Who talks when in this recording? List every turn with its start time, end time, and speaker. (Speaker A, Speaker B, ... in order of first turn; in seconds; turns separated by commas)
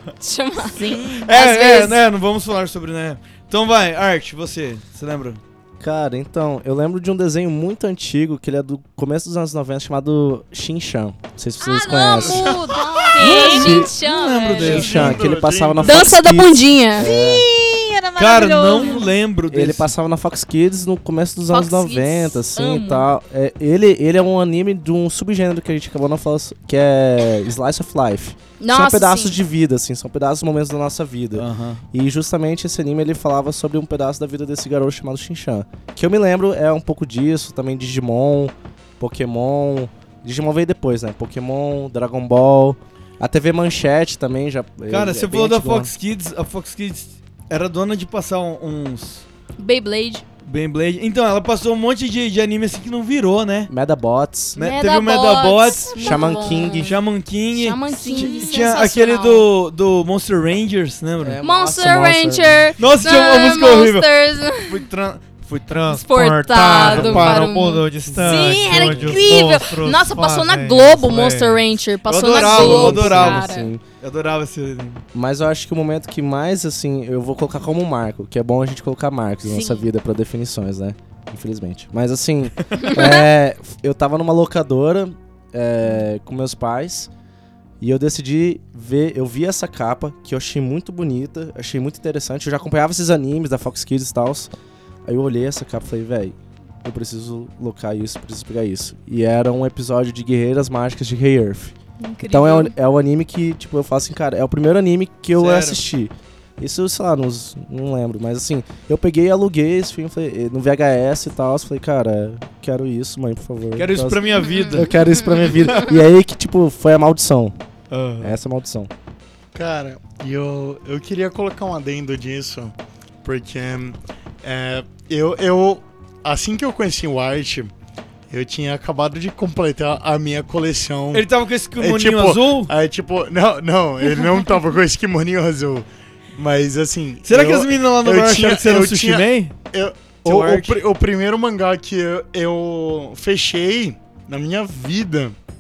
Speaker A: 0.2-2.0, Speaker B: 0.8-1.3, Speaker C: 1.1-5.4, Speaker D: 5.8-12.6, Speaker A: 11.6-15.1, Speaker E: 12.2-13.1, Speaker B: 13.2-13.6, Speaker C: 13.2-15.2, Speaker D: 13.4-13.9, Speaker D: 14.6-17.5, Speaker E: 14.6-16.1, Speaker A: 15.8-17.1, Speaker B: 17.0-19.1, Speaker C: 18.2-19.9, Speaker D: 19.5-45.9, Speaker A: 21.5-23.1, Speaker A: 28.6-29.4, Speaker C: 31.4-31.8, Speaker C: 44.9-49.3, Speaker A: 49.6-50.2, Speaker C: 50.5-53.7, Speaker D: 53.7-54.6, Speaker C: 54.6-56.2, Speaker A: 54.6-59.5, Speaker D: 56.0-57.0, Speaker C: 56.7-61.4, Speaker D: 61.2-62.8, Speaker A: 61.4-64.8, Speaker C: 62.8-64.1, Speaker C: 64.6-73.5, Speaker A: 65.9-73.7, Speaker D: 66.7-67.5, Speaker D: 68.1-69.4, Speaker D: 72.4-73.8, Speaker C: 74.0-75.0, Speaker D: 75.1-87.1, Speaker B: 79.5-79.9, Speaker A: 82.8-83.3, Speaker D: 87.8-94.5, Speaker D: 95.1-101.8, Speaker A: 102.0-102.8, Speaker D: 102.3-117.6, Speaker C: 105.3-105.8, Speaker C: 113.8-114.9, Speaker A: 114.4-115.9, Speaker C: 115.5-115.8, Speaker C: 117.9-118.4, Speaker D: 118.2-118.9, Speaker E: 119.5-127.7, Speaker E: 128.3-145.4, Speaker C: 131.1-132.7, Speaker C: 137.2-139.5, Speaker C: 140.2-140.8